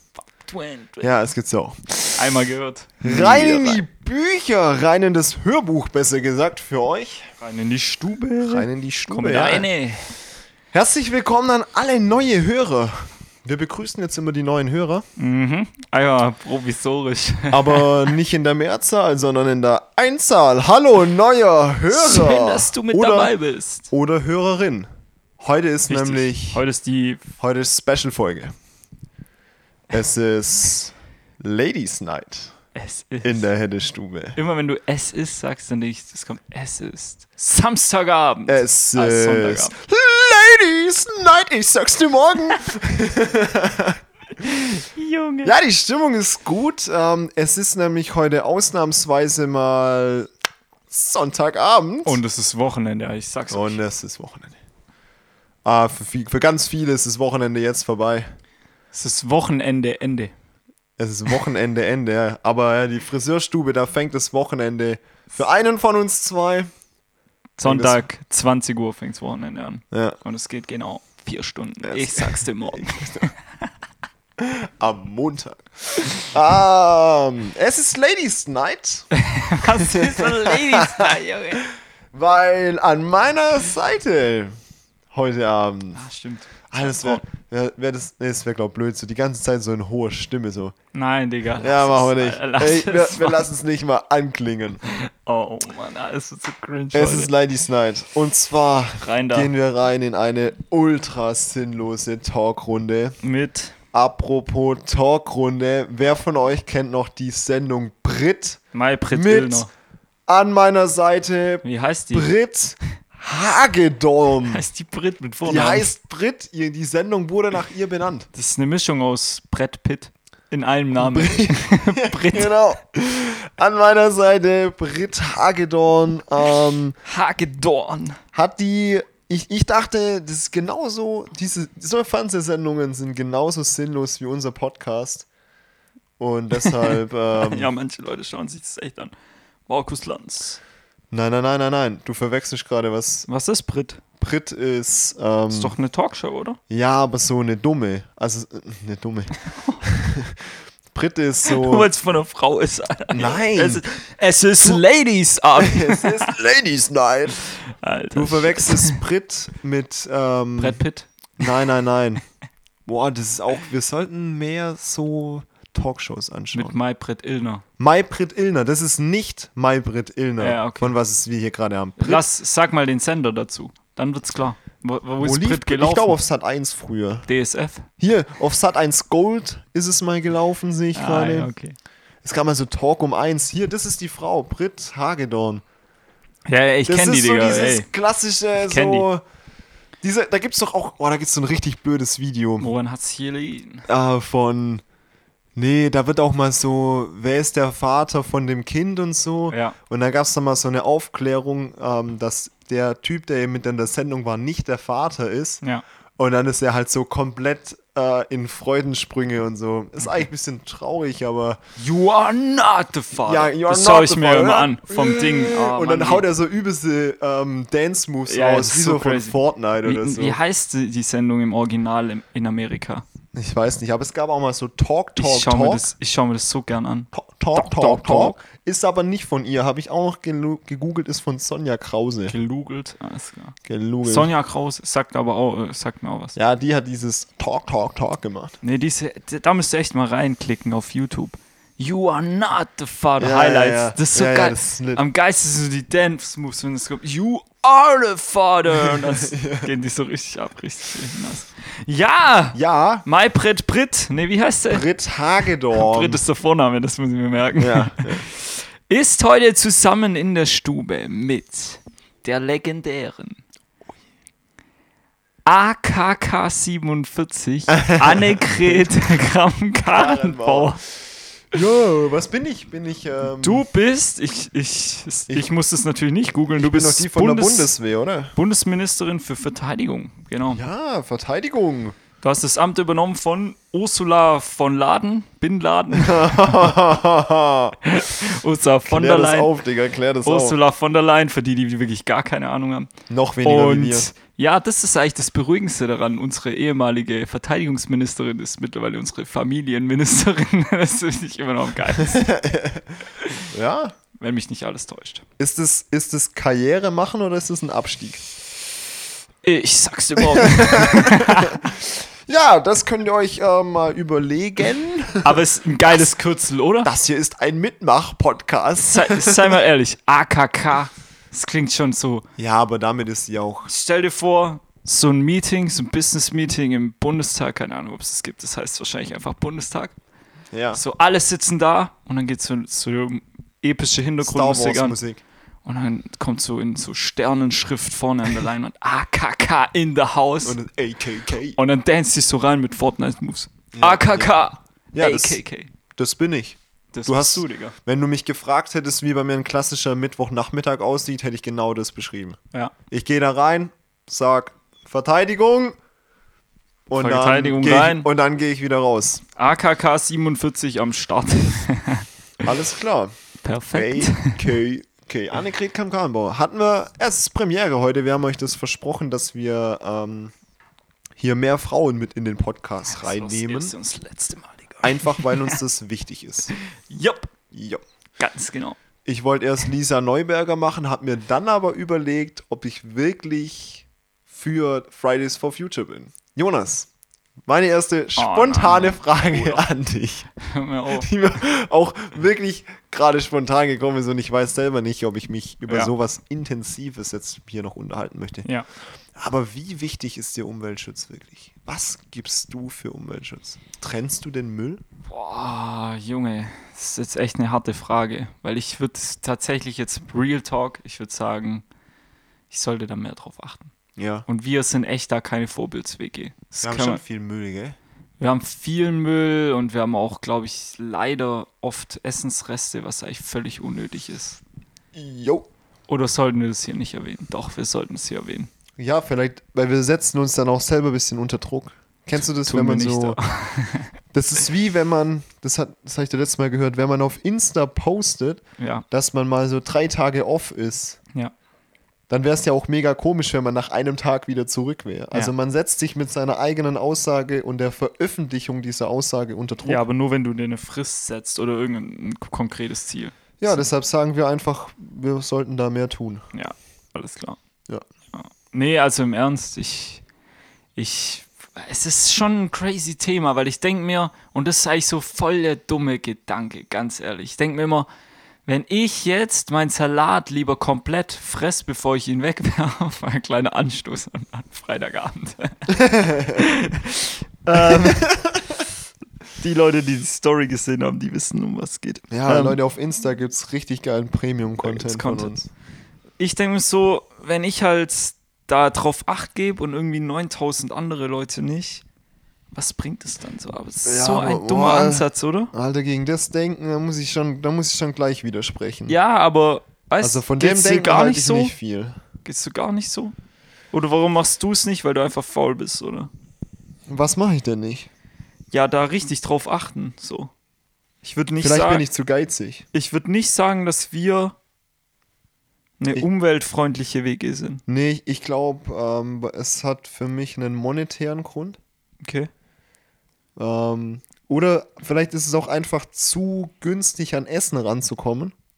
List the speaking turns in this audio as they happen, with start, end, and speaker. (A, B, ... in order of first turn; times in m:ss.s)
0:00.4-0:01.1 A
0:01.0-0:02.4 B
0:02.2-0:03.8 A
0:03.0-0:07.3 B
0:07.4-0:10.1 A
0:08.4-0:09.7 B
0:10.7-0:15.0 B
0:15.2-0:18.1 A
0:17.5-0:23.3 B
0:21.9-0:23.9 A
0:23.9-0:24.9 B
0:25.4-0:26.6 B
0:25.9-0:27.2 A
0:27.4-0:28.5 B
0:29.9-0:32.5 B
0:32.7-0:33.4 A
0:33.2-0:34.4 B
0:34.4-0:39.7 A
0:38.5-0:44.0 B
0:44.7-0:45.5 A
0:45.4-0:50.3 B
0:50.9-0:52.2 B
0:52.0-0:53.8 A
0:53.5-0:54.5 B
0:55.6-0:58.3 B
0:58.9-1:00.3 A
1:01.0-1:06.7 B
1:07.6-1:13.3 A
1:07.6-1:08.0 B
1:09.9-1:10.2 B
1:11.8-1:13.3 B
1:14.4-1:19.1 B
1:19.1-1:21.6 A
1:19.6-1:21.1 B
1:22.1-1:24.5 B
1:25.1-1:26.0 B
1:26.0-1:27.2 A
1:26.7-1:30.7 B
1:30.9-1:33.5 A
1:31.6-1:34.8 B
1:34.9-1:37.3 A
1:36.9-1:43.2 B
1:39.0-1:39.5 A
1:43.2-1:43.7 A
1:43.9-1:48.6 B
1:48.7-1:49.7 A
1:49.1-1:49.7 B
1:50.3-1:54.6 B
1:51.6-1:52.3 A
1:54.5-1:55.9 A
1:55.4-1:58.3 B
1:58.3-2:02.6 A
2:01.0-2:07.0 B
2:07.0-2:08.2 A
2:08.3-2:15.3 B
2:16.2-2:17.7 B
2:16.7-2:19.1 A
2:19.7-2:20.6 A
2:21.1-2:23.3 B
2:23.3-2:24.0 A
2:24.2-2:25.7 B
2:25.5-2:26.6 A
2:26.7-2:31.9 B
2:31.4-2:36.3 A
2:33.1-2:33.8 B
2:35.5-2:37.5 B
2:37.7-2:39.0 A
2:38.1-2:40.8 B
2:40.6-2:41.5 A
2:41.4-2:42.2 B
2:42.8-2:46.8 B
2:46.5-2:47.6 A
2:47.8-2:52.2 B
2:50.4-2:50.9 A
2:52.0-2:56.2 A
2:55.2-2:57.3 B
2:57.3-2:57.8 A
2:58.0-3:01.5 B
3:00.9-3:01.8 A
3:02.2-3:05.6 B
3:06.5-3:07.9 A
3:06.9-3:09.2 B
3:08.6-3:09.1 A
3:10.0-3:12.7 B
3:12.6-3:13.8 A
3:13.9-3:14.8 B
3:15.6-3:25.6 B
3:19.5-3:19.8 A
3:26.2-3:31.6 B
3:31.8-3:36.2 A
3:33.2-3:40.4 B
3:38.2-3:43.0 A
3:43.3-3:45.9 B
3:45.2-3:48.4 A
3:47.1-3:52.3 B
3:52.3-3:56.4 A
3:53.6-3:54.3 B
3:56.3-3:58.6 B
3:58.6-4:14.8 A
4:03.2-4:05.0 B
4:08.8-4:09.7 B
4:12.5-4:13.0 B
4:14.7-4:16.2 B
4:15.7-4:23.4 A
4:17.6-4:18.2 B
4:25.4-4:30.8 A
4:27.7-4:28.9 B
4:29.8-4:30.9 B
4:31.5-4:33.6 B
4:33.4-4:37.7 A
4:36.5-4:38.3 B
4:38.3-4:40.6 A
4:40.5-4:42.0 B
4:42.2-4:46.7 A
4:45.9-4:48.0 B
4:47.8-4:49.6 A
4:48.9-4:50.6 B
4:50.2-4:52.9 A
4:53.1-4:54.1 B
4:53.4-5:02.3 A
5:02.0-5:02.9 B
5:03.4-5:04.0 B
5:04.2-5:05.2 A
5:05.4-5:08.2 B
5:09.4-5:11.6 A
5:10.2-5:15.4 B
5:15.2-5:16.9 A
5:16.8-5:19.6 B
5:18.8-5:22.2 A
5:22.4-5:23.7 B
5:23.7-5:29.9 A
5:30.5-5:30.8 B
5:30.7-5:35.0 A
5:34.2-5:35.2 B
5:35.6-5:40.6 A
5:40.4-5:41.6 B
5:41.6-5:45.7 A
5:43.7-5:44.4 B
5:44.9-5:45.4 B
5:46.0-5:52.4 B
5:46.9-5:47.8 A
5:52.9-5:55.8 B
5:56.9-5:59.2 B
5:56.9-5:58.1 A
5:59.4-6:02.0 A
6:02.4-6:03.1 B
6:03.4-6:04.5 A
6:03.7-6:10.3 B
6:11.2-6:13.7 B
6:12.9-6:15.6 A
6:14.8-6:16.5 B
6:16.5-6:17.3 A
6:17.5-6:17.8 B
6:18.2-6:18.8 A
6:19.0-6:26.9 B
6:27.5-6:30.3 B
6:28.2-6:29.6 A
6:30.4-6:31.1 A
6:30.9-6:38.5 B
6:39.2-6:44.8 B
6:45.0-6:51.6 A
6:52.5-6:53.7 A
6:54.0-6:54.2 B
6:54.3-6:57.0 A
6:56.6-6:57.8 B
6:58.2-7:04.4 A
7:04.9-7:05.5 B
7:05.9-7:08.5 A
7:08.8-7:13.2 B
7:12.4-7:13.9 A
7:14.1-7:21.0 B
7:18.6-7:18.8 A
7:22.1-7:29.8 B
7:29.6-7:33.7 A
7:33.4-7:36.2 B
7:36.3-7:37.4 A
7:38.1-7:40.0 A
7:40.8-7:47.9 A
7:48.4-7:55.7 A
7:55.7-7:56.4 B
7:56.3-7:58.0 A
7:57.5-7:58.6 B
7:59.4-8:02.6 A
8:02.1-8:05.5 B
8:04.6-8:05.3 A
8:06.2-8:11.8 A
8:12.5-8:15.5 A
8:13.8-8:19.0 B
8:18.9-8:21.5 A
8:20.0-8:22.0 B
8:22.2-8:23.1 A
8:23.7-8:26.1 A
8:26.9-8:27.9 B
8:28.5-8:30.3 A
8:31.0-8:31.8 A
8:31.4-8:32.6 B
8:32.7-8:34.3 A
8:35.8-8:37.6 A
8:37.7-8:41.6 B
8:42.0-8:42.3 A
8:43.4-8:48.3 B